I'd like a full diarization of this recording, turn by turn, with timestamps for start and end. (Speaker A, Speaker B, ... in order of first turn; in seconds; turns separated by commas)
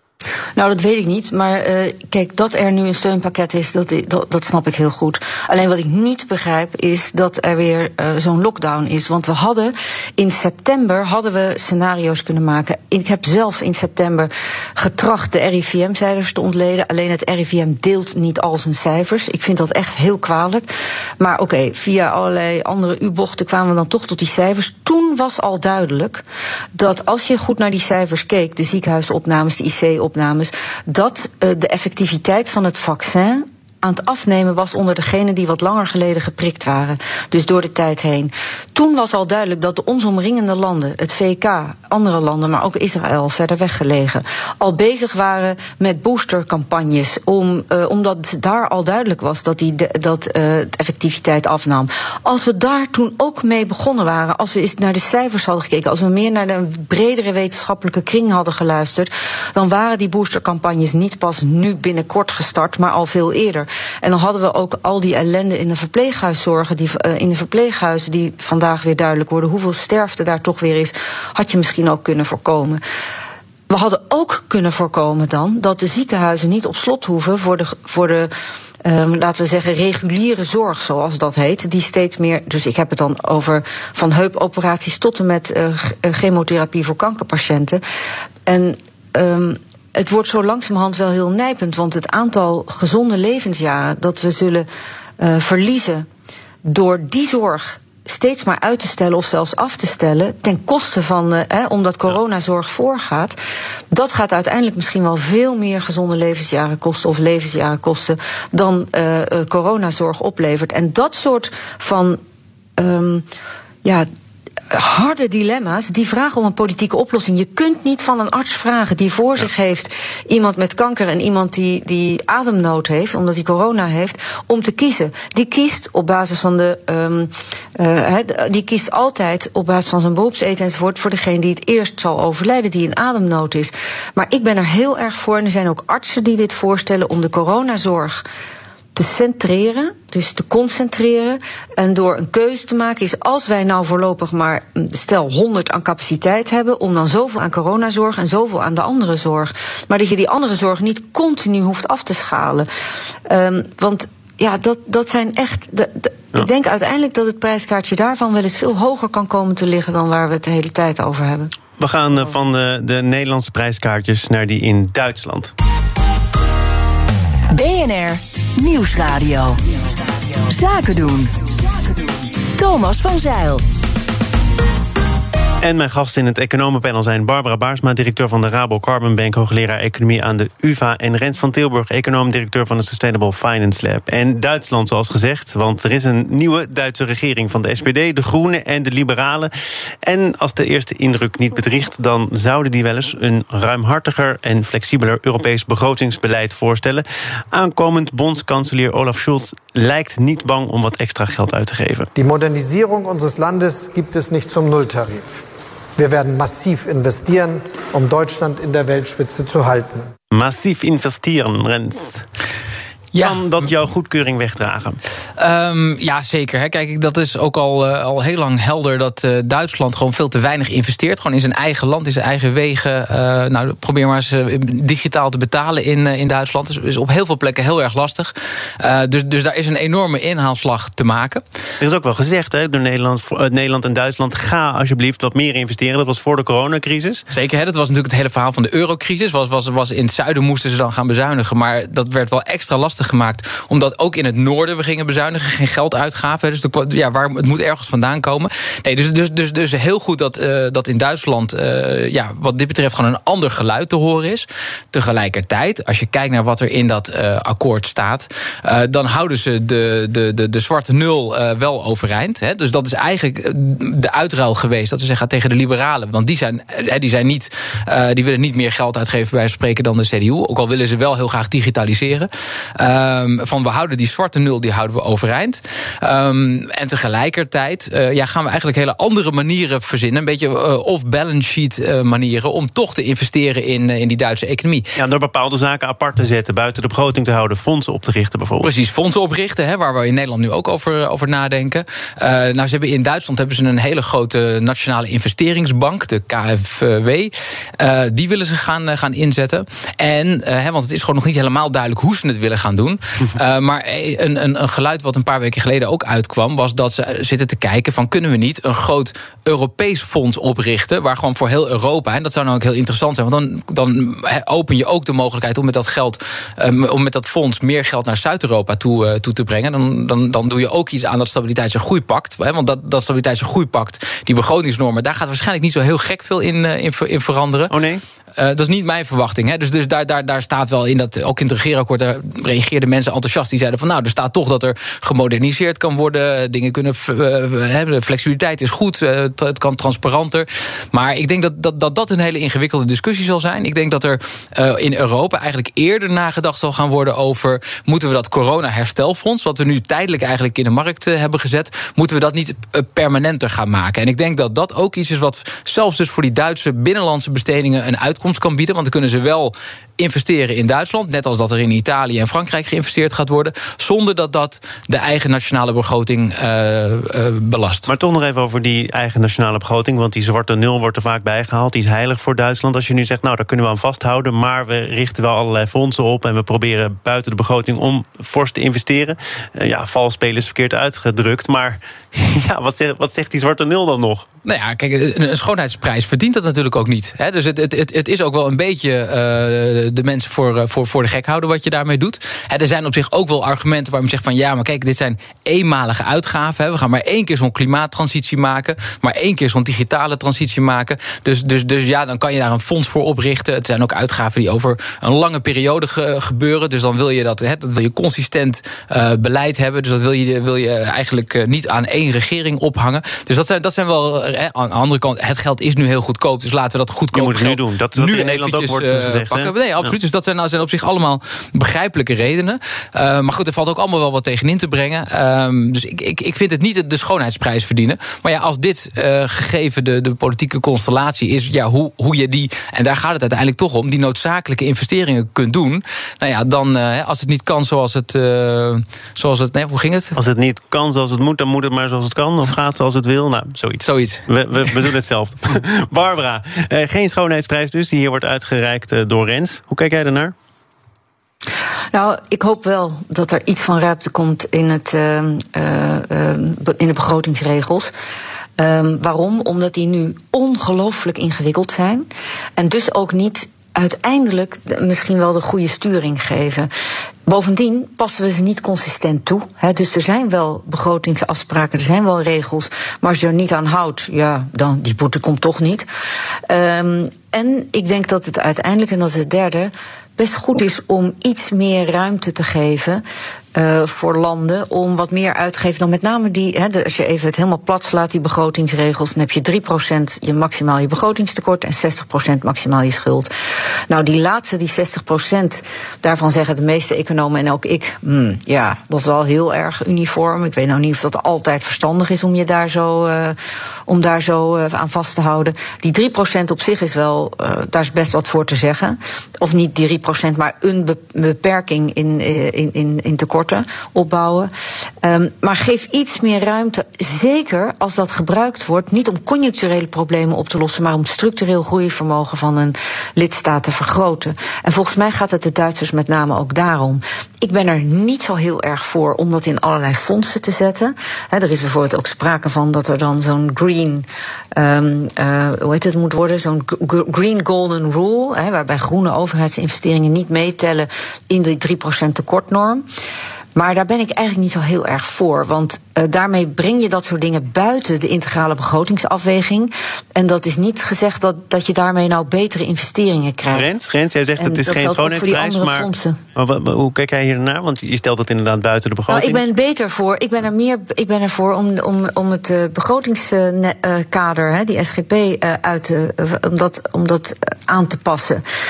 Speaker A: 0.6-26.2, Speaker A: 26.7-72.8, Speaker A: 73.7-78.3, Speaker A: 78.8-87.8, Speaker A: 88.5-94.7, Speaker A: 95.2-96.1, Speaker A: 96.6-103.4, Speaker A: 103.9-112.2, Speaker A: 112.8-113.3, Speaker A: 114.7-138.2, Speaker A: 138.9-152.7, Speaker A: 153.2-161.5, Speaker B: 161.8-165.5, Speaker C: 167.5-169.8, Speaker C: 170.3-173.6, Speaker B: 175.6-189.5, Speaker B: 190.0-202.1, Speaker D: 202.1-205.4, Speaker D: 206.0-210.1, Speaker B: 210.3-212.3, Speaker E: 213.1-213.4, Speaker B: 213.2-215.0, Speaker E: 215.4-231.4, Speaker B: 231.8-237.2, Speaker E: 237.3-284.9, Speaker B: 284.9-288.7, Speaker E: 288.6-327.7, Speaker B: 327.7-328.0, Speaker E: 328.4-367.9, Speaker B: 367.9-384.3, Speaker E: 384.4-440.1, Speaker B: 417.1-419.9, Speaker B: 440.1-450.3, Speaker E: 443.8-444.2, Speaker A: 451.9-457.9, Speaker A: 458.6-462.1, Speaker A: 462.6-466.7, Speaker A: 467.2-475.9, Speaker A: 476.5-483.0, Speaker A: 483.5-493.3, Speaker A: 493.9-503.4, Speaker A: 503.9-514.5, Speaker A: 515.0-542.9, Speaker A: 543.5-553.7, Speaker B: 553.5-559.4, Speaker A: 554.4-556.2, Speaker A: 559.1-568.4